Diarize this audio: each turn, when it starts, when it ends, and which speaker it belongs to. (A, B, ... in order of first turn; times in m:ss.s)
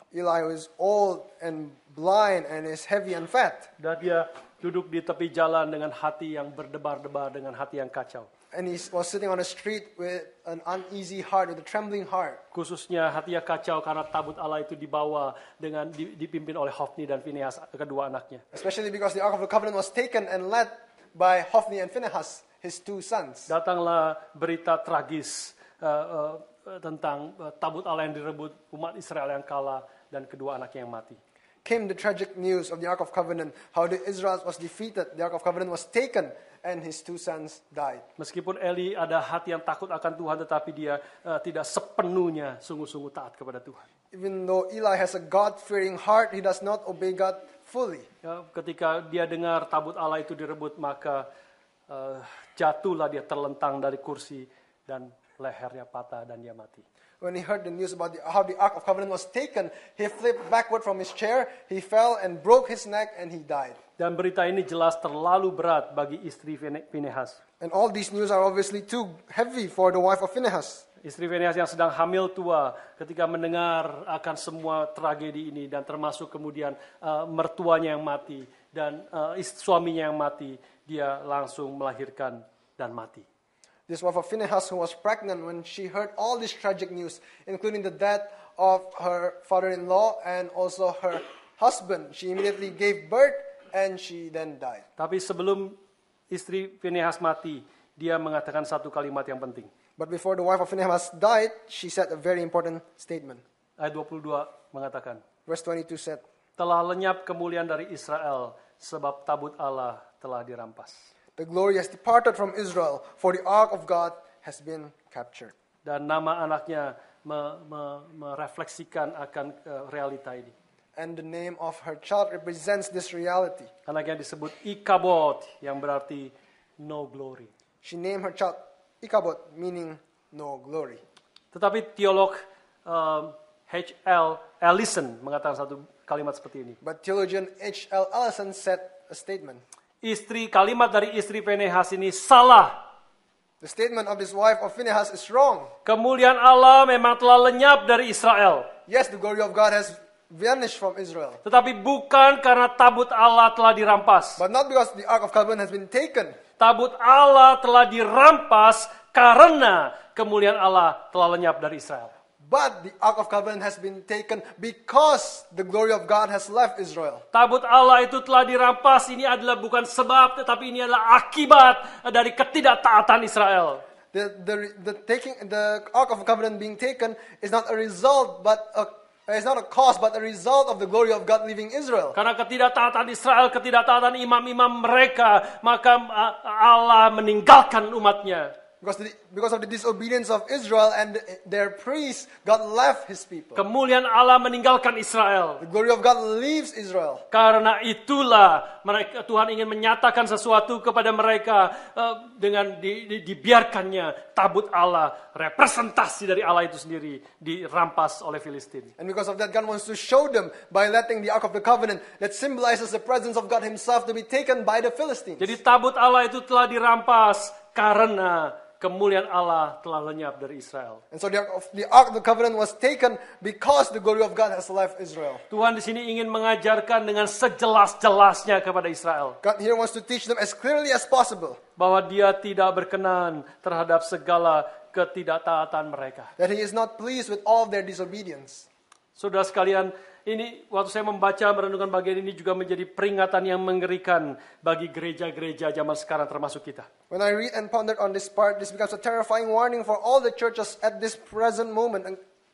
0:00.1-0:03.7 A
0:03.8-0:08.3 B
0:08.5-0:12.4 A
0:12.5-0:18.4 B
0:18.5-0:23.5 A
0:23.5-0:31.2 B
0:31.6-0:38.1 A
0:38.2-0:43.9 B
0:44.1-0:48.1 A
0:48.2-0:51.3 B
0:51.9-0:56.8 B
0:57.2-1:03.8 A
1:04.0-1:07.4 B
1:07.6-1:10.8 A
1:11.0-1:23.3 B
1:23.9-1:34.9 A
1:35.0-1:35.8 B
1:36.3-1:39.7 B
1:40.0-1:43.4 A
1:43.8-1:45.2 B
1:45.5-1:46.2 A
1:46.6-1:51.1 B
1:51.4-1:55.5 A
1:55.8-2:00.5 B
2:01.0-2:03.7 A
2:03.9-2:07.5 B
2:07.8-2:11.0 A
2:11.5-2:16.8 B
2:16.8-2:19.6 A
2:20.0-2:22.8 B
2:23.6-2:25.7 A
2:25.8-2:28.7 B
2:28.9-2:31.4 A
2:31.4-2:34.4 B
2:34.4-2:36.4 A
2:36.6-2:42.1 B
2:42.4-2:47.2 A
2:47.3-2:53.8 B
2:54.1-3:02.2 A
3:02.2-3:08.6 B
3:08.8-3:13.6 A
3:13.6-3:15.6 B
3:15.6-3:17.2 A
3:17.3-3:28.9 B
3:29.0-3:35.6 A
3:35.4-3:41.0 B
3:41.1-3:45.4 A
3:45.5-3:49.4 B
3:49.4-3:51.6 A
3:51.8-3:56.3 B
3:56.4-3:58.7 A
3:59.2-4:06.9 B
4:07.1-4:12.2 A